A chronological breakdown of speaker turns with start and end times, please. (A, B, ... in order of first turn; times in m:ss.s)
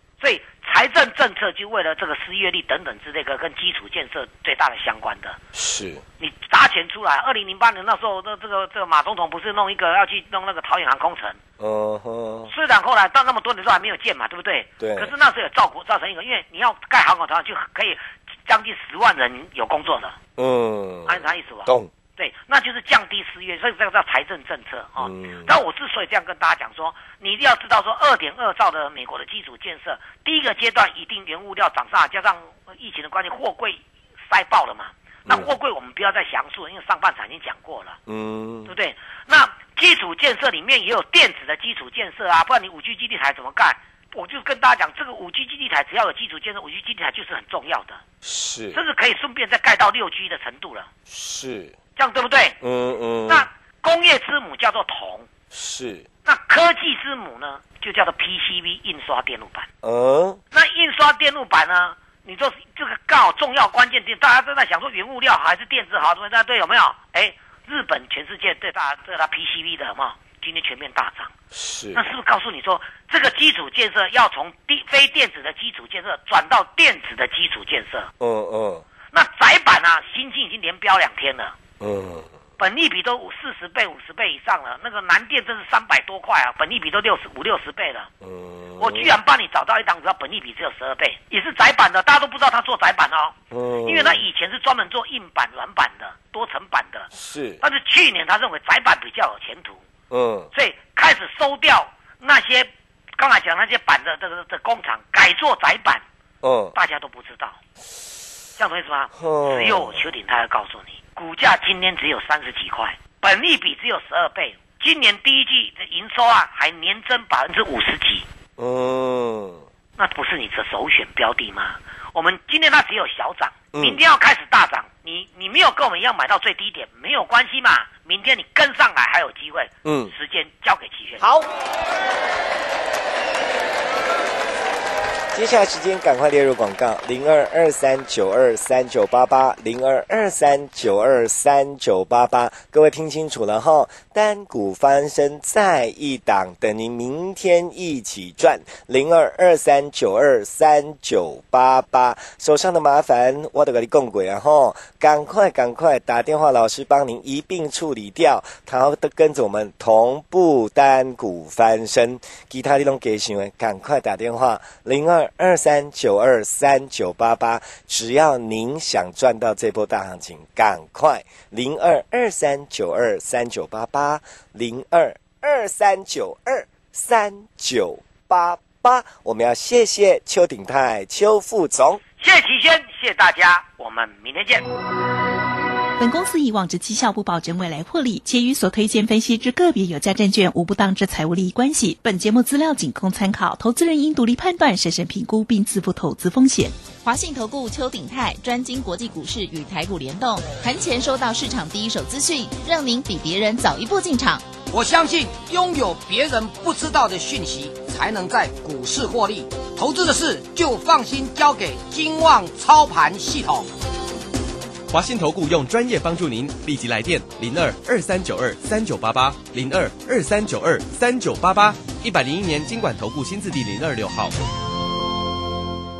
0:00.2-0:05.4 A
0:05.5-0:06.0 B
0:06.2-0:11.4 A
0:11.6-0:12.5 B
0:12.5-0:20.2 A
0:14.8-0:15.1 B
0:20.4-0:21.9 B
0:21.0-0:38.0 A
0:25.0-0:25.5 B
0:38.1-0:38.7 B
0:38.6-0:48.0 A
0:48.2-0:48.8 B
0:48.7-0:50.9 A
0:51.1-0:51.8 B
0:52.0-0:52.6 A
0:52.6-0:53.5 B
0:53.3-0:55.3 A
0:55.5-0:56.1 B
0:56.2-0:59.7 A
0:59.8-1:00.4 B
1:00.5-1:11.3 A
1:11.5-1:12.0 B
1:11.9-1:18.1 A
1:18.2-1:18.8 B
1:19.1-1:21.5 A
1:21.8-1:22.3 B
1:22.6-1:28.1 A
1:28.2-1:29.1 B
1:28.8-1:37.1 A
1:33.5-1:34.2 B
1:37.1-1:37.6 B
1:37.6-1:39.8 A
1:40.1-1:40.5 B
1:40.5-1:46.0 A
1:46.4-1:46.7 B
1:46.7-1:47.6 A
1:48.6-1:58.2 A
1:49.1-1:50.1 B
1:58.6-1:59.6 B
2:00.0-2:11.3 A
2:03.7-2:04.0 B
2:09.8-2:10.1 B
2:11.2-2:11.5 B
2:15.3-3:02.0 B
3:02.2-3:04.6 A
3:06.0-3:16.8 C
3:17.0-3:24.5 D
3:24.7-3:33.7 E
3:34.9-3:44.3 F